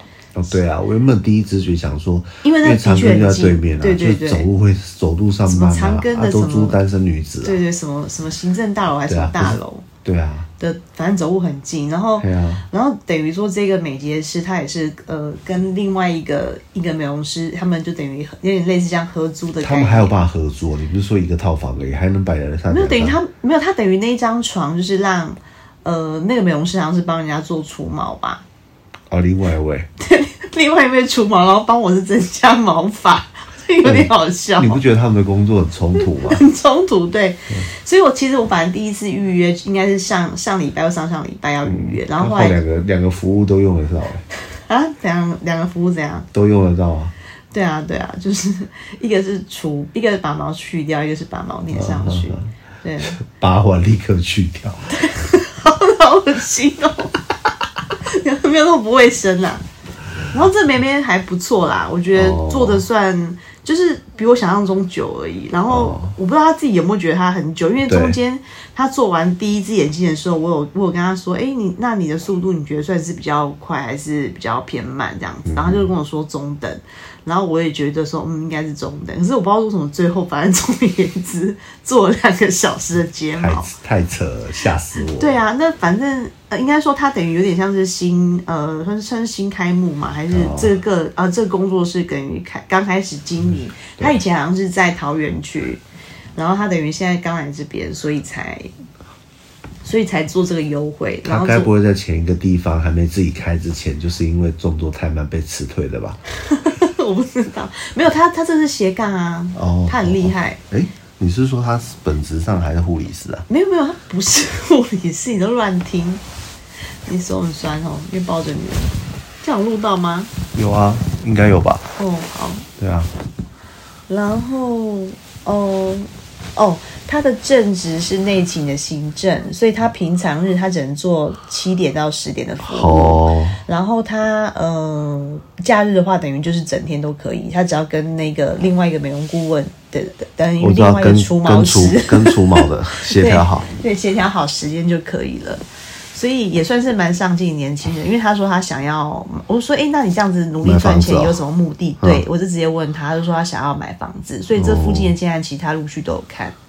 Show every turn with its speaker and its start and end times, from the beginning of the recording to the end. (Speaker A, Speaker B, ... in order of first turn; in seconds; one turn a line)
Speaker A: 0.4-7.6
Speaker B: 2.4-4.5
Speaker B: 5.5-6.8
Speaker B: 7.4-9.9
Speaker A: 9.1-10.5
Speaker B: 10.6-20.2
Speaker A: 12.2-12.7
Speaker A: 19.6-23.2
Speaker B: 22.7-28.4
Speaker A: 29.1-29.9
Speaker B: 30.0-34.8
Speaker A: 33.8-36.5
Speaker B: 36.0-42.6
Speaker A: 41.7-44.2
Speaker B: 44.5-46.3
Speaker A: 46.3-47.1
Speaker B: 47.5-53.2
Speaker A: 51.7-52.5
Speaker A: 53.1-54.9
Speaker B: 54.9-57.2
Speaker B: 57.9-59.6
Speaker B: 60.3-83.7
Speaker A: 62.1-62.8
Speaker A: 65.7-66.1
Speaker A: 67.8-68.2
Speaker A: 75.5-75.9
Speaker A: 83.4-85.4
Speaker B: 85.2-95.8
Speaker A: 90.3-90.7
Speaker B: 96.4-98.7
Speaker B: 99.8-101.7
Speaker A: 101.2-106.2
Speaker B: 106.4-110.6
Speaker A: 109.5-113.5
Speaker B: 113.5-116.2
Speaker B: 117.1-120.3
Speaker A: 120.5-121.9
Speaker B: 122.0-122.7
Speaker A: 122.8-123.1
Speaker B: 124.1-145.6
Speaker A: 132.6-133.6
Speaker A: 140.6-143.7
Speaker B: 146.1-156.6
Speaker A: 150.6-151.4
Speaker A: 154.6-155.2